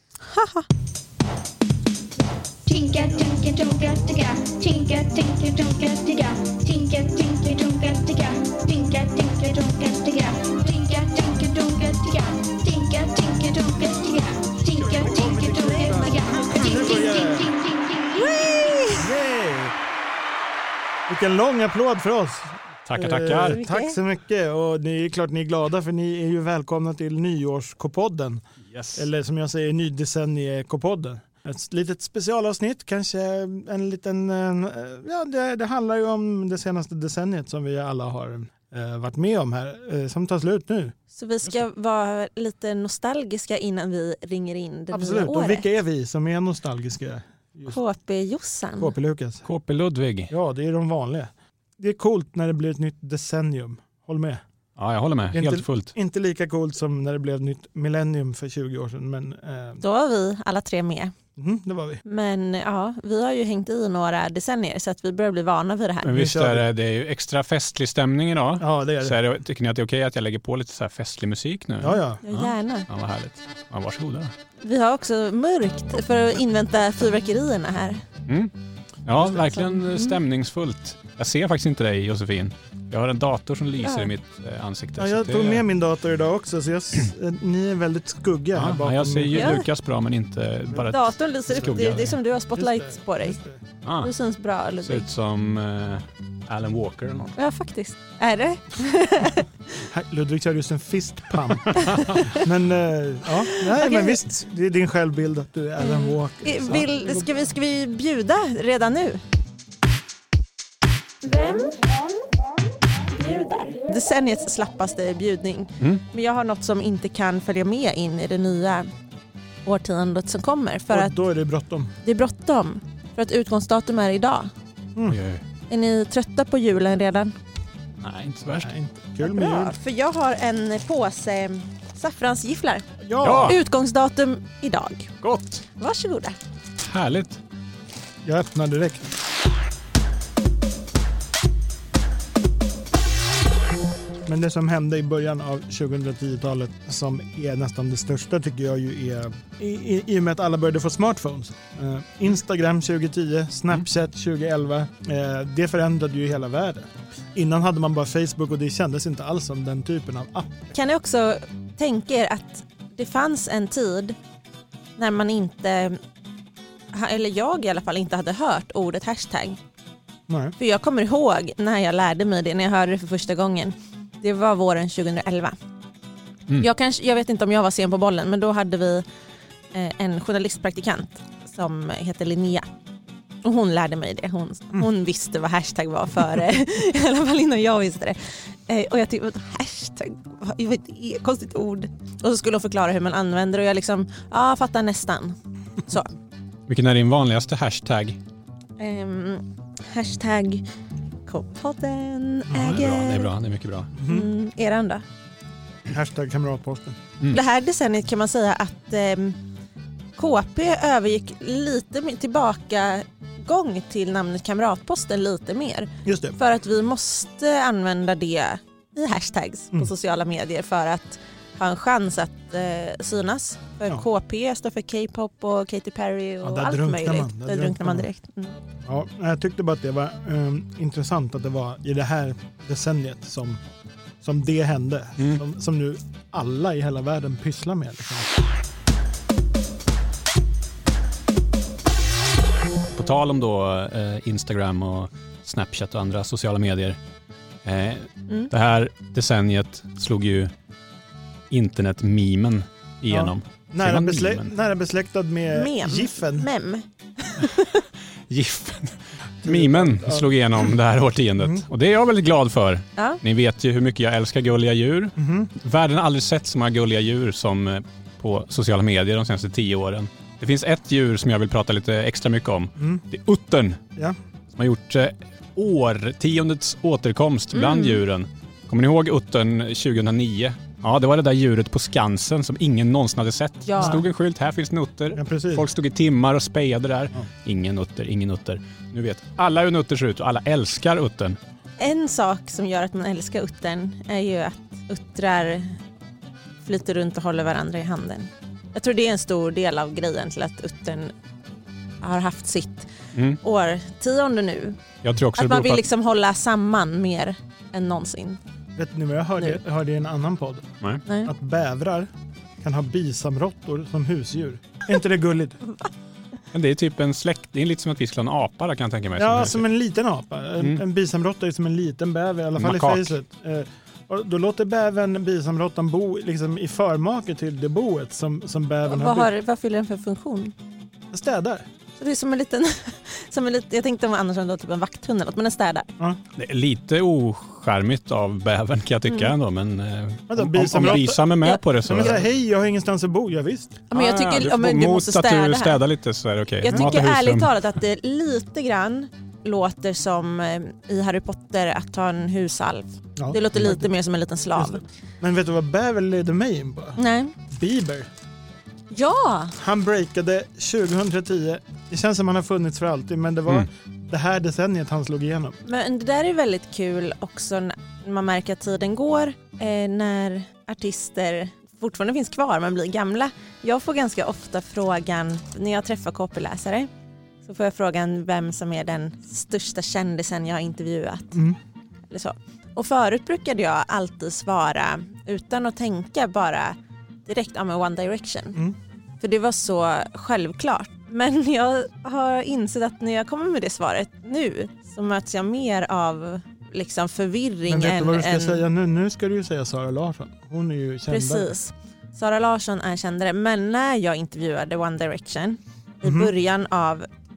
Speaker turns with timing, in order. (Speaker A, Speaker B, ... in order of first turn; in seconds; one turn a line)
Speaker A: 0.2-0.7
Speaker B: 2.6-18.7
Speaker C: 14.9-17.6
Speaker A: 18.1-19.1
Speaker C: 18.9-19.8
Speaker C: 21.1-28.4
Speaker D: 22.9-23.6
Speaker A: 23.5-24.0
Speaker D: 28.7-29.0
Speaker C: 28.9-41.0
Speaker A: 41.1-45.7
Speaker C: 44.9-47.8
Speaker A: 47.7-48.9
Speaker C: 48.8-49.5
Speaker D: 49.5-50.3
Speaker C: 50.3-54.4
Speaker D: 54.8-55.9
Speaker C: 55.3-59.8
Speaker A: 59.8-61.1
Speaker C: 61.4-62.0
Speaker A: 62.0-66.1
Speaker D: 66.0-74.3
Speaker C: 66.1-66.7
Speaker C: 68.6-69.2
Speaker C: 71.8-72.2
Speaker A: 72.2-72.9
Speaker A: 74.6-78.0
Speaker D: 79.0-85.6
Speaker A: 79.5-80.2
Speaker A: 83.8-84.1
Speaker C: 85.0-89.6
Speaker D: 88.6-92.2
Speaker A: 89.3-89.7
Speaker A: 90.8-93.4
Speaker C: 91.6-93.6
Speaker D: 93.8-94.1
Speaker A: 94.0-95.1
Speaker D: 94.8-97.3
Speaker A: 97.3-99.5
Speaker C: 99.8-107.3
Speaker D: 101.7-102.1
Speaker A: 101.8-102.4
Speaker A: 103.3-104.2
Speaker A: 105.8-109.2
Speaker A: 111.2-111.6
Speaker A: 113.1-118.9
Speaker A: 119.6-121.2
Speaker C: 120.9-121.9
Speaker A: 122.0-124.5
Speaker D: 125.0-125.4
Speaker A: 125.7-127.3
Speaker D: 128.0-128.7
Speaker C: 128.6-129.8
Speaker A: 129.2-132.8
Speaker C: 133.0-133.6
Speaker D: 133.2-133.6
Speaker A: 133.4-135.1
Speaker D: 135.2-135.6
Speaker A: 135.8-136.4
Speaker D: 136.8-137.4
Speaker C: 138.2-139.1
Speaker C: 144.2-160.7
Speaker A: 160.7-164.2
Speaker A: 165.0-166.0
Speaker A: 166.9-169.6
Speaker C: 170.3-170.6
Speaker A: 170.6-175.6
Speaker A: 176.6-179.0
Speaker A: 179.7-182.7
Speaker A: 183.4-196.1
Speaker D: 196.7-198.2
Speaker A: 198.8-200.6
Speaker A: 201.3-203.3
Speaker C: 202.5-202.8
Speaker D: 202.5-203.9
Speaker C: 204.0-204.3
Speaker A: 204.0-205.0
Speaker C: 205.9-207.0
Speaker A: 207.3-209.4
Speaker A: 210.2-228.6
Speaker C: 216.0-216.4
Speaker C: 226.4-228.1
Speaker C: 228.8-233.6
Speaker C: 234.2-238.3
Speaker D: 242.9-247.0
Speaker D: 247.6-250.5
Speaker D: 251.5-254.5
Speaker C: 253.1-256.5
Speaker A: 255.5-257.8
Speaker D: 258.3-273.8
Speaker C: 259.4-260.3
Speaker C: 261.4-261.7
Speaker C: 265.2-265.5
Speaker D: 274.6-291.4
Speaker A: 277.5-278.0
Speaker A: 283.7-284.0
Speaker C: 283.8-284.1
Speaker C: 285.1-285.7
Speaker A: 291.8-295.8
Speaker A: 296.6-301.1
Speaker A: 302.0-304.8
Speaker D: 305.0-305.9
Speaker A: 305.4-308.4
Speaker C: 308.8-310.7
Speaker A: 311.1-311.3
Speaker C: 311.2-312.1
Speaker C: 312.6-315.6
Speaker D: 316.5-319.6
Speaker C: 319.2-329.3
Speaker D: 322.6-323.1
Speaker A: 328.9-330.5
Speaker C: 331.1-331.6
Speaker A: 332.0-335.9
Speaker D: 336.4-342.2
Speaker C: 340.3-343.8
Speaker A: 340.8-342.1
Speaker A: 343.9-345.8
Speaker D: 343.9-347.6
Speaker A: 346.6-354.8
Speaker C: 353.2-353.9
Speaker C: 354.6-358.1
Speaker A: 357.0-357.4
Speaker A: 358.9-359.6
Speaker C: 359.6-365.6
Speaker A: 365.6-376.9
Speaker A: 377.4-381.4
Speaker C: 381.3-381.6
Speaker A: 382.1-388.6
Speaker A: 389.2-398.6
Speaker C: 397.7-401.6
Speaker A: 401.1-407.1
Speaker C: 406.0-406.3